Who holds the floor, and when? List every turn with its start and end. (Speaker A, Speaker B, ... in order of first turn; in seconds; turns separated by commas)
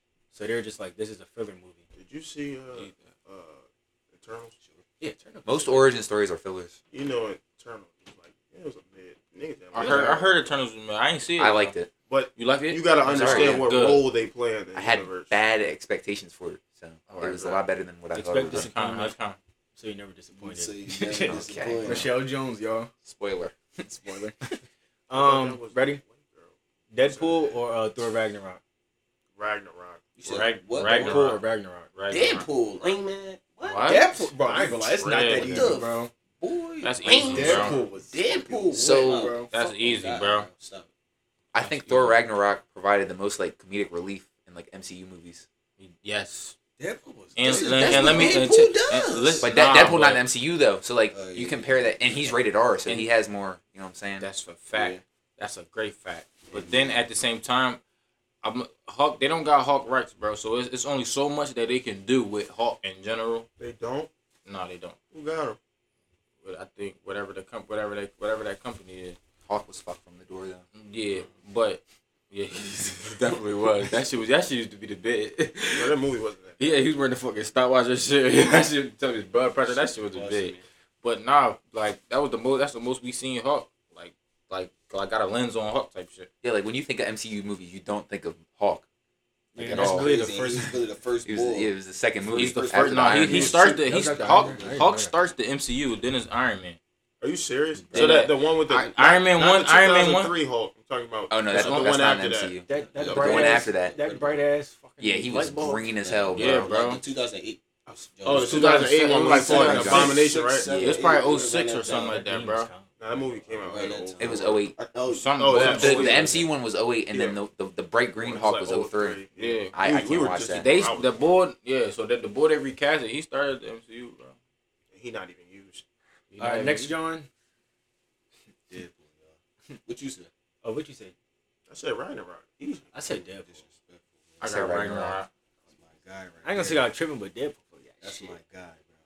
Speaker A: 0.3-1.8, Speaker B: 2.0-4.5, Speaker A: 5.0-6.0, Speaker C: 5.5-6.8, Speaker B: 6.9-10.4, Speaker D: 9.7-11.7, Speaker C: 9.8-10.1, Speaker C: 11.4-11.9, Speaker B: 12.1-15.4, Speaker D: 12.4-14.1, Speaker C: 13.0-13.7, Speaker C: 14.7-18.7, Speaker D: 17.1-17.6, Speaker A: 18.1-19.1, Speaker D: 18.5-19.4, Speaker A: 19.8-22.9, Speaker E: 20.4-22.1, Speaker C: 21.3-22.1, Speaker C: 23.0-23.5, Speaker A: 23.8-26.0, Speaker B: 25.1-27.6, Speaker A: 26.9-28.6, Speaker B: 29.4-30.1, Speaker E: 30.1-31.3, Speaker D: 30.3-31.4, Speaker A: 30.8-31.9, Speaker D: 31.9-32.5, Speaker E: 32.1-34.1, Speaker D: 33.6-35.8, Speaker A: 33.9-36.1, Speaker E: 35.1-40.9, Speaker D: 36.8-37.8, Speaker A: 37.1-39.5, Speaker C: 38.7-39.4, Speaker D: 39.4-40.5, Speaker C: 41.5-45.5, Speaker D: 41.6-42.2, Speaker D: 45.8-46.6, Speaker A: 46.8-48.5, Speaker E: 47.4-49.5, Speaker D: 47.4-50.2, Speaker C: 49.4-54.3, Speaker E: 51.1-52.4, Speaker D: 54.2-57.8, Speaker E: 54.7-55.0, Speaker E: 56.5-57.0, Speaker D: 58.4-63.5, Speaker B: 63.6-64.1, Speaker D: 64.5-65.0, Speaker B: 65.1-65.6, Speaker D: 66.4-69.2, Speaker C: 69.5-70.6, Speaker D: 70.8-76.0, Speaker B: 75.7-76.8, Speaker D: 76.6-86.3, Speaker E: 80.1-80.6, Speaker C: 86.4-88.8, Speaker C: 89.5-90.2, Speaker A: 89.5-90.8, Speaker E: 89.7-91.7, Speaker C: 91.2-93.7, Speaker E: 92.2-93.5, Speaker D: 92.3-96.8, Speaker A: 93.5-95.1, Speaker E: 94.2-94.8, Speaker B: 97.2-102.5, Speaker C: 97.9-98.2, Speaker D: 97.9-100.3, Speaker C: 101.3-104.0, Speaker D: 101.5-102.2, Speaker A: 102.7-105.9, Speaker E: 102.7-104.4, Speaker C: 105.0-106.7, Speaker E: 106.0-112.2, Speaker D: 106.3-107.0, Speaker B: 108.2-110.8, Speaker D: 108.4-112.7, Speaker C: 109.3-110.1, Speaker C: 110.7-111.0, Speaker A: 111.8-113.8, Speaker B: 113.0-114.5, Speaker E: 113.6-116.4, Speaker C: 114.2-114.8, Speaker D: 115.1-116.3, Speaker B: 115.4-116.4, Speaker C: 115.6-119.2, Speaker B: 117.1-117.4, Speaker B: 118.2-121.3, Speaker D: 119.4-124.3, Speaker C: 119.7-120.7, Speaker B: 124.9-125.8, Speaker D: 126.3-126.9, Speaker A: 126.4-127.3, Speaker E: 128.7-129.3, Speaker E: 129.8-130.3, Speaker A: 130.6-131.1, Speaker B: 131.7-132.9, Speaker A: 132.9-133.6, Speaker E: 133.1-134.4, Speaker D: 134.4-135.3, Speaker C: 134.4-135.2, Speaker E: 135.7-136.9, Speaker A: 136.4-138.4, Speaker E: 138.0-138.9